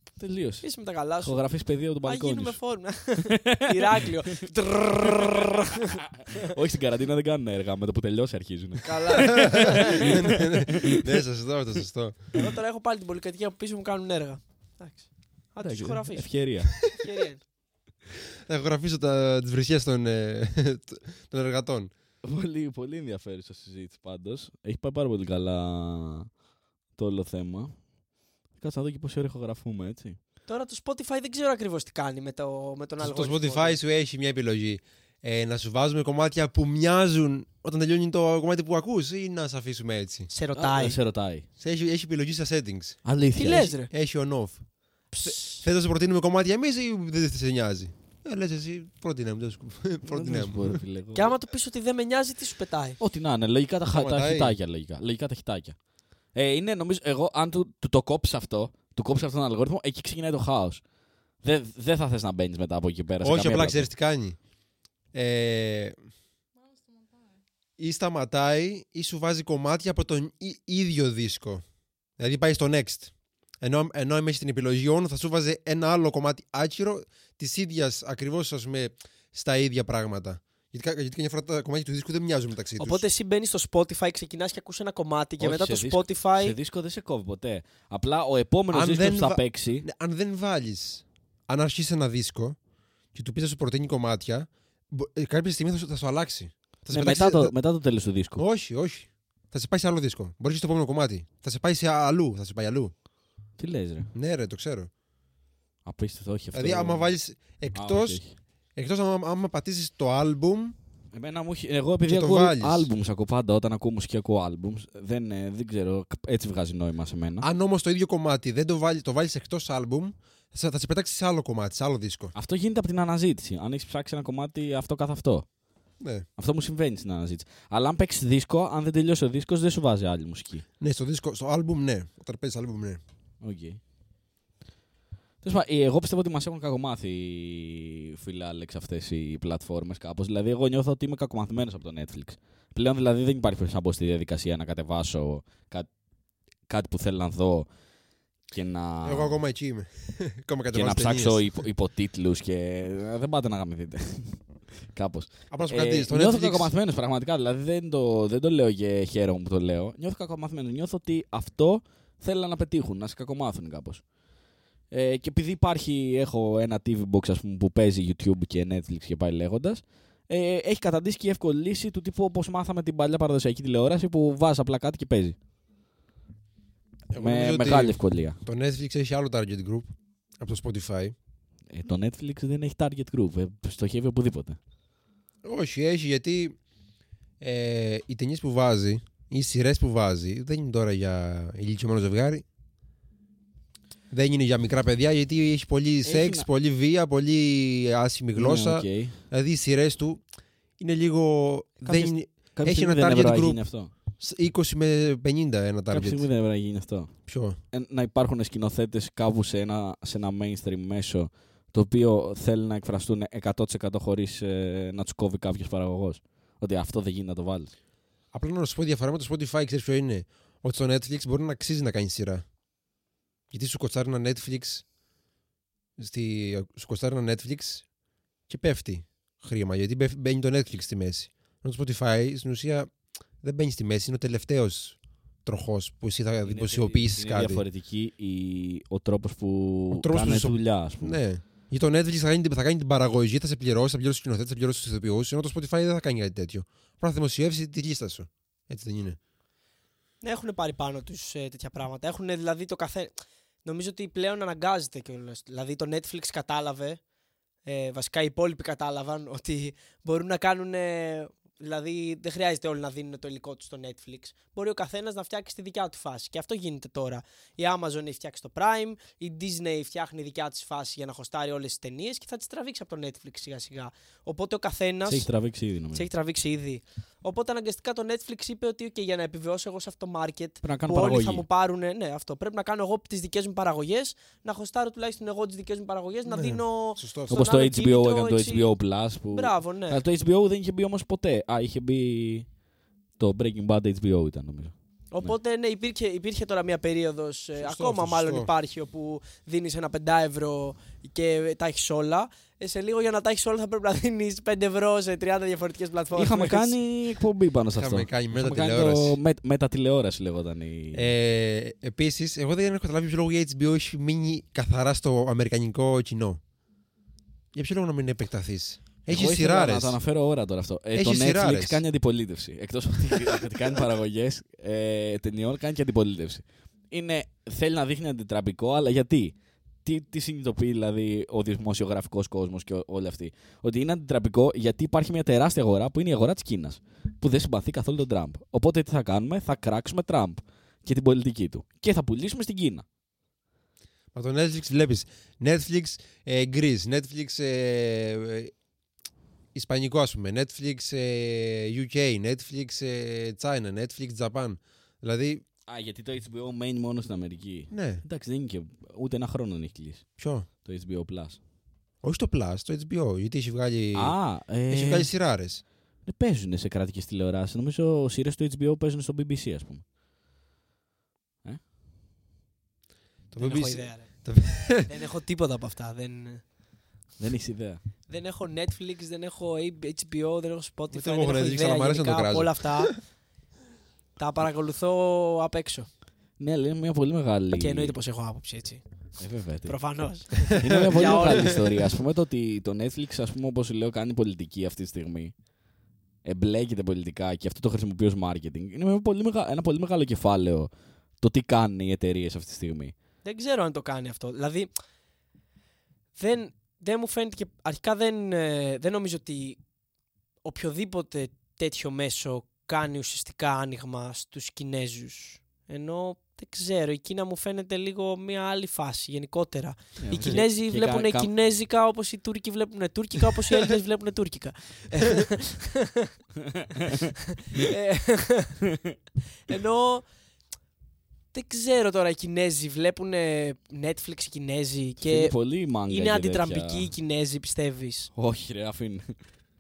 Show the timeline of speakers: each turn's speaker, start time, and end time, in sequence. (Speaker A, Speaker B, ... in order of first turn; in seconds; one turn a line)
Speaker A: 0.2-2.6
Speaker B: 0.6-1.5
Speaker B: 2.0-6.0
Speaker A: 3.2-4.0
Speaker A: 6.4-10.9
Speaker B: 8.8-10.2
Speaker C: 9.4-12.3
Speaker B: 12.3-17.4
Speaker A: 15.6-16.9
Speaker C: 18.5-21.9
Speaker A: 22.2-26.4
Speaker A: 26.9-27.9
Speaker A: 28.5-30.2
Speaker B: 30.5-33.8
Speaker C: 33.0-40.3
Speaker B: 40.3-41.0
Speaker A: 40.5-41.5
Speaker C: 41.6-50.8
Speaker A: 43.0-43.8
Speaker B: 43.3-43.9
Speaker B: 45.1-45.6
Speaker A: 50.1-51.3
Speaker B: 51.1-53.0
Speaker A: 53.0-60.9
Speaker C: 53.9-54.5
Speaker A: 61.4-63.9
Speaker C: 63.2-64.5
Speaker C: 65.1-66.0
Speaker C: 67.8-83.0
Speaker B: 82.8-86.5
Speaker A: 85.4-89.8
Speaker C: 88.7-92.6
Speaker C: 93.1-97.5
Speaker A: 96.9-98.4
Speaker C: 98.4-102.9
Speaker A: 103.6-104.1
Speaker C: 104.1-104.9
Speaker A: 105.8-107.1
Speaker C: 106.5-110.7
Speaker A: 107.7-108.4
Speaker A: 111.1-117.5
Speaker C: 112.0-112.9
Speaker C: 117.4-122.3
Speaker A: 122.3-125.6
Speaker C: 126.0-126.2
Speaker A: 126.4-130.7
Speaker C: 130.8-133.0
Speaker A: 133.4-133.8
Speaker A: 135.4-145.9
Speaker A: 146.6-147.8
Speaker A: 148.4-149.3
Speaker C: 149.0-151.6
Speaker A: 150.7-164.1
Speaker C: 155.5-156.7
Speaker A: 164.9-175.3
Speaker C: 177.1-181.1
Speaker A: 177.2-178.4
Speaker A: 181.7-184.6
Speaker C: 185.4-186.6
Speaker C: 187.4-192.4
Speaker C: 194.1-206.2
Speaker A: 196.0-196.4
Speaker A: 198.3-199.2
Speaker A: 201.8-203.9
Speaker A: 205.9-217.7
Speaker C: 207.2-207.6
Speaker C: 218.3-222.5
Speaker C: 223.5-224.9
Speaker C: 226.0-227.9
Speaker C: 228.5-237.6
Speaker A: 236.4-241.2
Speaker C: 239.9-249.2
Speaker B: 250.2-257.0
Speaker B: 257.6-275.3
Speaker A: 275.1-276.1
Speaker B: 275.9-288.7
Speaker A: 280.6-281.4
Speaker C: 286.3-287.4
Speaker A: 287.3-292.5
Speaker B: 289.3-290.0
Speaker A: 293.2-295.3
Speaker B: 295.1-306.8
Speaker C: 297.6-298.5
Speaker A: 306.1-311.1
Speaker C: 307.7-309.2
Speaker C: 310.9-316.4
Speaker C: 317.5-320.0
Speaker A: 319.1-342.9
Speaker C: 320.9-321.8
Speaker C: 344.1-348.5
Speaker C: 349.5-355.4
Speaker A: 355.7-361.4
Speaker C: 357.7-358.0
Speaker C: 360.2-360.5
Speaker C: 362.0-364.2
Speaker A: 363.9-365.1
Speaker C: 364.7-365.6
Speaker A: 366.0-369.8
Speaker C: 373.3-374.9
Speaker B: 373.4-376.5
Speaker A: 377.2-377.8
Speaker B: 378.1-383.2
Speaker C: 380.9-383.0
Speaker B: 384.2-385.9
Speaker A: 386.4-387.9
Speaker B: 387.5-391.6
Speaker A: 389.2-395.4
Speaker C: 390.6-390.9
Speaker A: 396.2-402.9
Speaker B: 403.2-404.7
Speaker B: 406.1-409.6
Speaker B: 410.4-426.1
Speaker A: 420.0-421.3
Speaker B: 427.5-428.6
Speaker B: 429.5-430.0
Speaker B: 431.3-435.4
Speaker A: 435.0-436.9
Speaker B: 435.9-438.1
Speaker A: 438.1-439.2